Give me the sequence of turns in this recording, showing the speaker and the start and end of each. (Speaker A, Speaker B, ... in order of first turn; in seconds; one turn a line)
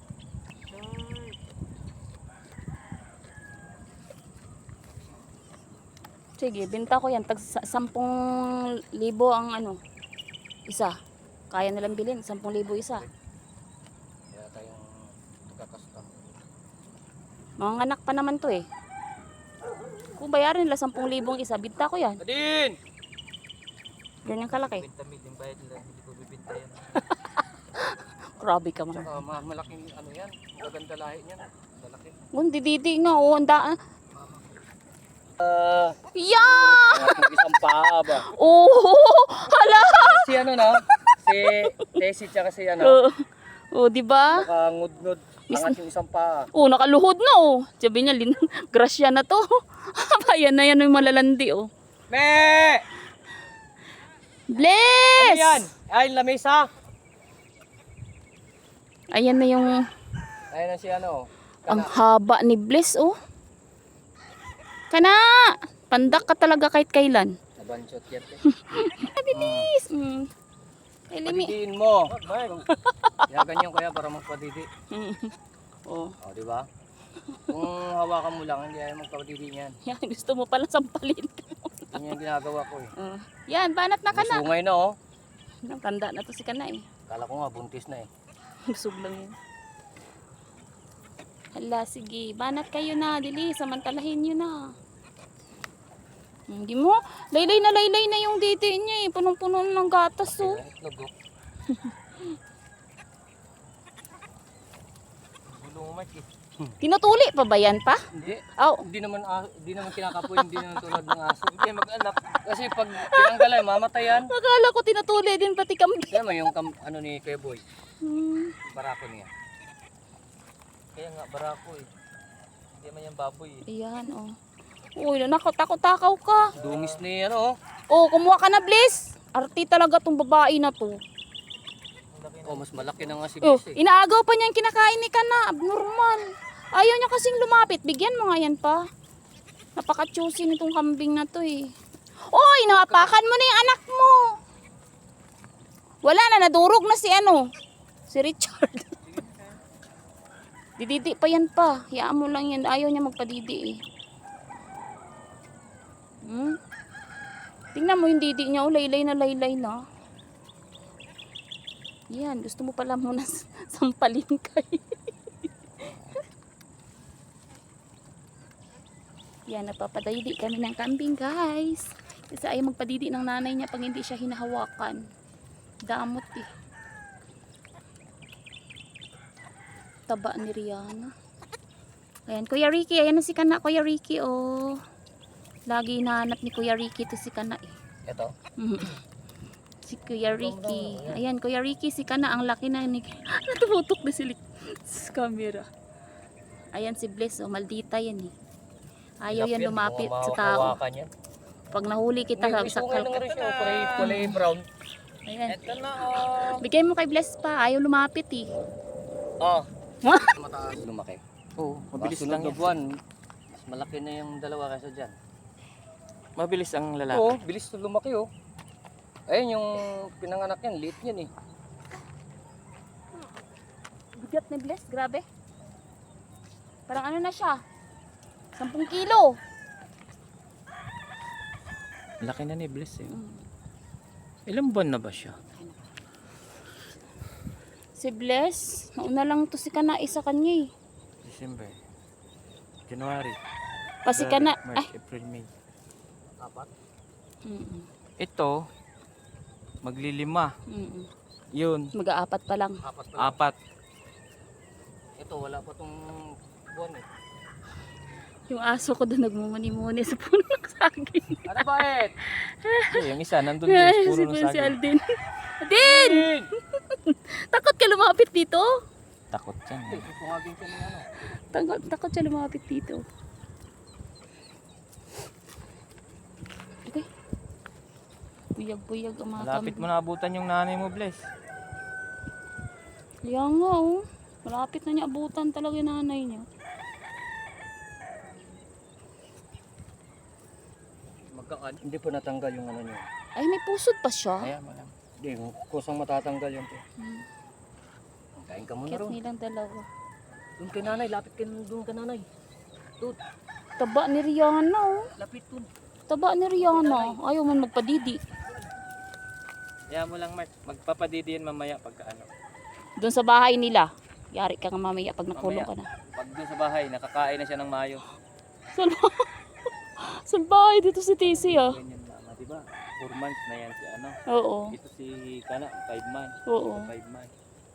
Speaker A: 0.7-1.4
Speaker B: 6.4-9.8
Speaker B: 11.5-13.1
Speaker C: 14.3-16.3
Speaker B: 17.6-18.6
Speaker B: 20.2-22.2
Speaker C: 22.2-22.8
Speaker B: 24.3-24.9
Speaker A: 24.6-27.1
Speaker B: 27.8-29.1
Speaker C: 28.9-32.1
Speaker B: 32.3-33.8
Speaker C: 34.1-34.4
Speaker C: 35.4-38.3
Speaker B: 36.1-40.8
Speaker C: 39.7-43.0
Speaker B: 41.3-41.9
Speaker B: 42.8-43.1
Speaker B: 43.7-44.5
Speaker C: 44.3-46.5
Speaker B: 45.5-45.8
Speaker B: 46.5-51.7
Speaker C: 52.1-52.8
Speaker B: 54.5-55.7
Speaker C: 55.2-56.7
Speaker B: 59.1-59.8
Speaker C: 60.5-62.0
Speaker B: 61.7-63.1
Speaker B: 64.9-67.3
Speaker C: 67.6-68.4
Speaker B: 68.5-70.3
Speaker C: 69.3-69.7
Speaker B: 71.1-71.6
Speaker C: 71.2-72.5
Speaker A: 72.2-72.6
Speaker B: 72.7-73.5
Speaker C: 73.3-74.7
Speaker B: 74.9-75.4
Speaker B: 75.9-76.2
Speaker C: 76.2-76.7
Speaker C: 77.5-79.8
Speaker B: 79.9-82.2
Speaker C: 81.9-82.9
Speaker B: 83.0-84.5
Speaker C: 84.1-84.9
Speaker B: 85.7-86.8
Speaker C: 87.1-88.1
Speaker B: 88.7-89.3
Speaker B: 91.5-94.5
Speaker B: 96.5-100.6
Speaker C: 100.4-101.1
Speaker B: 101.7-102.2
Speaker A: 105.5-106.3
Speaker B: 106.8-108.0
Speaker C: 108.1-111.6
Speaker B: 108.6-108.9
Speaker B: 110.0-110.8
Speaker A: 111.5-112.4
Speaker C: 112.5-114.3
Speaker B: 112.9-116.2
Speaker C: 116.1-117.6
Speaker B: 118.0-118.5
Speaker C: 118.7-119.3
Speaker A: 120.9-121.9
Speaker A: 122.7-123.6
Speaker B: 123.7-124.3
Speaker B: 125.0-126.5
Speaker A: 126.6-127.0
Speaker C: 126.6-127.5
Speaker B: 127.9-130.9
Speaker A: 132.1-133.2
Speaker C: 132.4-133.8
Speaker B: 133.4-136.2
Speaker B: 136.7-138.8
Speaker B: 139.8-141.7
Speaker B: 142.3-144.2
Speaker C: 142.9-143.2
Speaker B: 146.0-147.4
Speaker B: 148.1-149.0
Speaker A: 149.1-149.5
Speaker B: 150.8-153.8
Speaker B: 156.3-156.6
Speaker B: 157.8-159.8
Speaker B: 162.1-164.9
Speaker B: 165.8-166.2
Speaker B: 169.5-175.0
Speaker B: 175.9-176.5
Speaker B: 180.1-181.1
Speaker B: 182.3-184.8
Speaker B: 185.7-187.8
Speaker C: 188.1-188.3
Speaker B: 188.6-189.0
Speaker B: 189.8-195.7
Speaker C: 190.2-191.2
Speaker B: 196.8-198.3
Speaker B: 199.2-200.8
Speaker C: 199.3-201.1
Speaker B: 201.7-203.3
Speaker C: 202.3-204.7
Speaker A: 203.2-204.2
Speaker B: 204.0-204.4
Speaker B: 205.3-205.6
Speaker A: 205.5-206.6
Speaker B: 206.4-208.5
Speaker C: 209.4-209.7
Speaker B: 210.0-210.3
Speaker C: 210.4-212.9
Speaker A: 211.9-212.8
Speaker C: 213.5-215.1
Speaker A: 216.4-217.4
Speaker C: 217.1-218.3
Speaker C: 219.3-221.3
Speaker B: 224.2-225.2
Speaker B: 226.9-227.6
Speaker B: 228.6-229.4
Speaker A: 232.2-233.2
Speaker B: 233.1-233.4
Speaker A: 234.5-235.4
Speaker B: 238.0-240.7
Speaker A: 241.2-241.8
Speaker A: 242.9-243.4
Speaker B: 244.1-244.9
Speaker A: 244.1-245.5
Speaker C: 246.4-246.7
Speaker B: 247.5-247.9
Speaker A: 248.2-248.7
Speaker A: 249.8-250.5
Speaker B: 250.7-251.1
Speaker A: 251.5-251.9
Speaker B: 251.9-252.8
Speaker C: 252.8-253.4
Speaker A: 253.2-253.6
Speaker C: 255.2-257.1
Speaker B: 258.5-261.8
Speaker C: 261.5-262.1
Speaker B: 262.4-263.1
Speaker A: 262.9-264.8
Speaker B: 263.6-268.7
Speaker C: 265.8-266.5
Speaker A: 269.3-270.1
Speaker C: 269.9-271.1
Speaker B: 271.5-273.0
Speaker B: 278.6-279.9
Speaker A: 279.4-281.2
Speaker B: 283.3-286.5
Speaker C: 291.3-293.1
Speaker B: 293.4-294.5
Speaker C: 294.4-296.8
Speaker C: 298.4-299.2
Speaker B: 298.9-299.9
Speaker C: 300.6-302.3
Speaker B: 303.8-305.0
Speaker C: 305.2-305.7
Speaker B: 306.1-308.2
Speaker C: 306.7-307.2
Speaker A: 309.9-312.3
Speaker B: 313.0-315.9
Speaker A: 315.4-318.0
Speaker B: 318.7-319.3
Speaker B: 320.0-321.8
Speaker A: 321.2-324.2
Speaker B: 324.3-324.8
Speaker A: 324.7-327.3
Speaker B: 326.5-326.9